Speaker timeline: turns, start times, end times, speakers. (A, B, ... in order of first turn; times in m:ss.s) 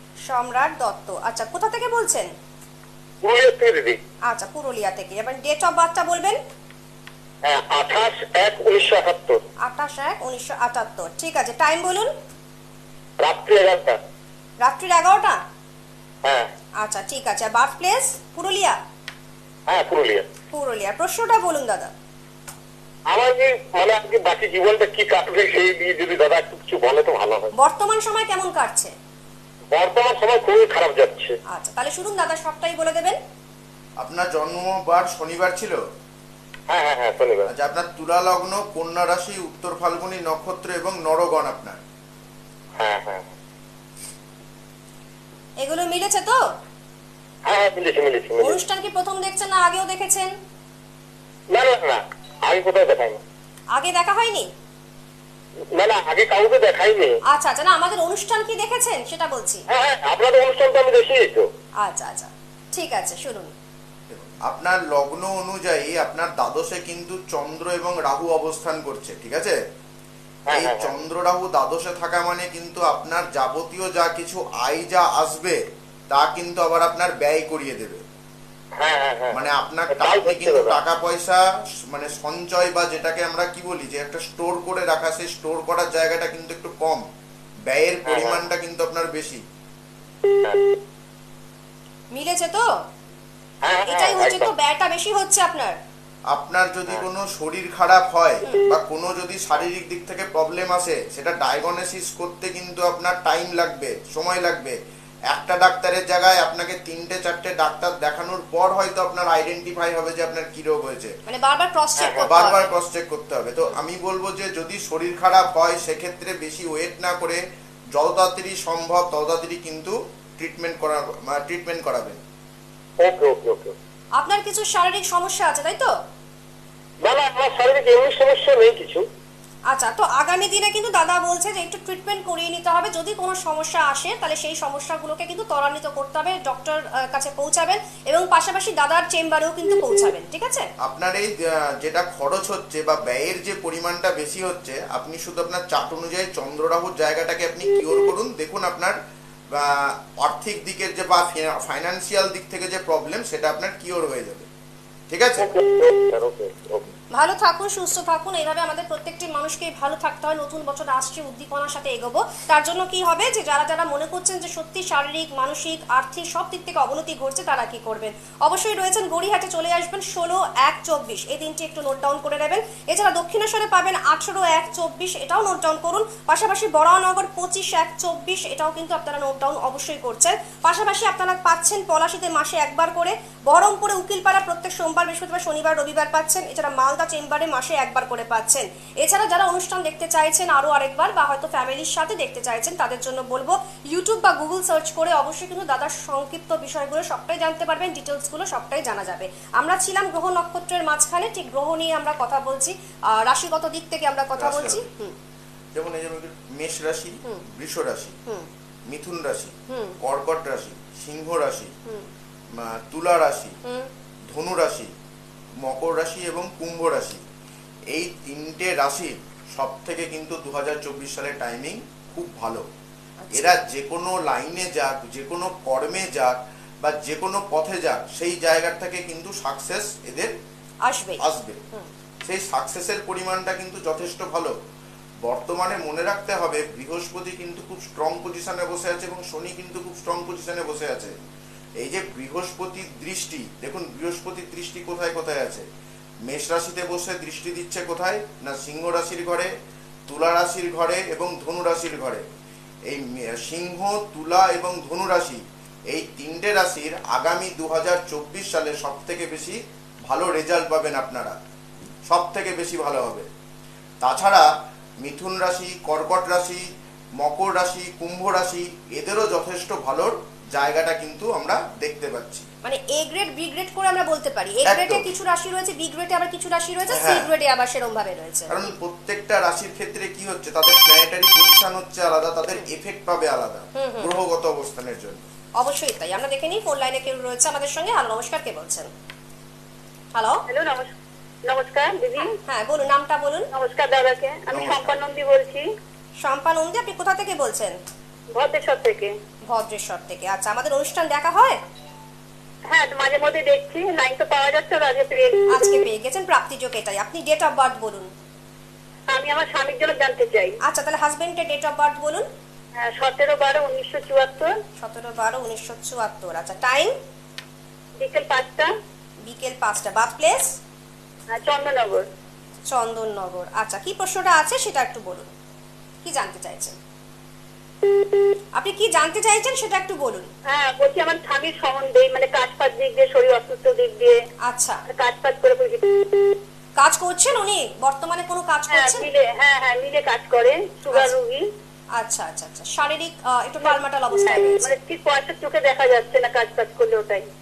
0:00.3-0:02.3 A
0:03.2-0:04.0 B
0:04.3-0:06.4 A
0:07.4-0:09.4 B
0:09.6-0:12.1 A
0:13.2-0:14.0 B
0:14.6-0:15.4 A
0:16.2-0:16.5 B
0:16.8-0:18.8 A
0:19.7-0:20.3 B
0:20.5-0:21.9 A
0:23.1-0:27.5 B
0:27.6-0:28.9 A
0:29.7-0:31.4 B
0:31.5-0:33.2 A
0:34.0-0:35.8 C
0:36.7-0:37.5 B
0:37.5-0:41.8 C
0:42.8-0:43.3 B
0:45.6-0:46.4 A
0:47.5-0:48.6 B
0:48.4-0:50.3 A
0:51.5-0:53.2 B
0:53.7-0:54.5 A
0:55.7-0:57.2 B
0:57.3-0:59.6 A
0:59.7-1:01.5 B
1:01.8-1:03.5 A
1:04.1-1:09.6 C
1:10.5-1:11.0 B
1:10.5-1:15.6 C
1:16.1-1:18.0 C
1:18.8-1:20.8 B
1:19.3-1:27.0 C
1:27.7-1:29.4 C
1:28.1-1:28.4 B
1:30.3-1:30.7 B
1:32.1-1:32.7 A
1:33.6-1:34.5 B
1:33.9-1:35.8 A
1:36.3-1:44.8 C
1:45.3-1:51.1 C
1:51.3-1:52.7 A
1:52.0-1:52.3 B
1:52.3-1:57.4 C
1:57.9-2:02.2 C
2:03.0-2:03.7 B
2:04.2-2:05.9 A
2:07.0-2:09.0 B
2:09.7-2:20.7 A
2:20.8-2:29.0 C
2:29.5-2:34.5 C
2:35.1-2:35.5 C
2:35.4-2:36.9 B
2:37.1-3:25.2 A
3:24.4-3:24.9 C
3:25.8-3:28.2 C
3:28.9-3:31.7 C
3:29.7-3:30.0 A
3:32.5-3:33.6 C
3:33.6-3:33.9 A
3:34.3-3:34.9 C
3:35.6-3:37.2 C
3:37.9-3:42.6 C
3:43.2-3:43.5 A
3:43.3-3:50.3 C
3:50.8-3:51.9 A
3:51.2-3:51.6 C
3:52.2-3:54.5 C
3:55.2-4:01.2 C
4:01.8-4:05.6 C
4:06.3-4:09.5 C
4:10.1-4:12.2 C
4:12.9-4:21.4 C
4:22.1-4:23.3 C
4:24.0-4:24.5 C
4:25.0-4:26.6 C
4:27.2-4:32.5 C
4:32.6-4:38.6 A
4:34.6-4:35.1 C
4:36.9-4:37.3 C
4:38.5-4:45.2 C
4:43.8-4:44.1 A
4:45.6-4:48.9 A
4:50.1-4:50.4 A
4:50.5-4:50.9 D
4:51.5-4:52.3 D
4:52.3-4:53.5 A
4:53.5-4:55.6 D
4:54.5-4:55.0 C
4:56.2-4:57.8 A
4:58.3-4:59.2 D
4:59.5-5:01.6 A
5:02.7-5:05.5 D
5:05.5-5:08.1 A
5:09.1-5:10.6 D
5:10.6-5:12.3 A
5:12.8-5:14.6 D
5:14.8-5:16.9 A
5:18.0-5:18.7 D
5:19.2-5:20.6 A
5:21.3-5:22.1 D
5:22.7-5:25.3 A
5:26.0-5:26.8 A
5:28.6-5:30.3 A
5:30.5-5:34.2 D
5:34.5-5:34.8 A
5:34.9-5:36.3 D
5:36.8-5:39.1 A
5:38.7-5:41.4 D
5:42.0-5:44.7 A
5:44.3-5:47.3 D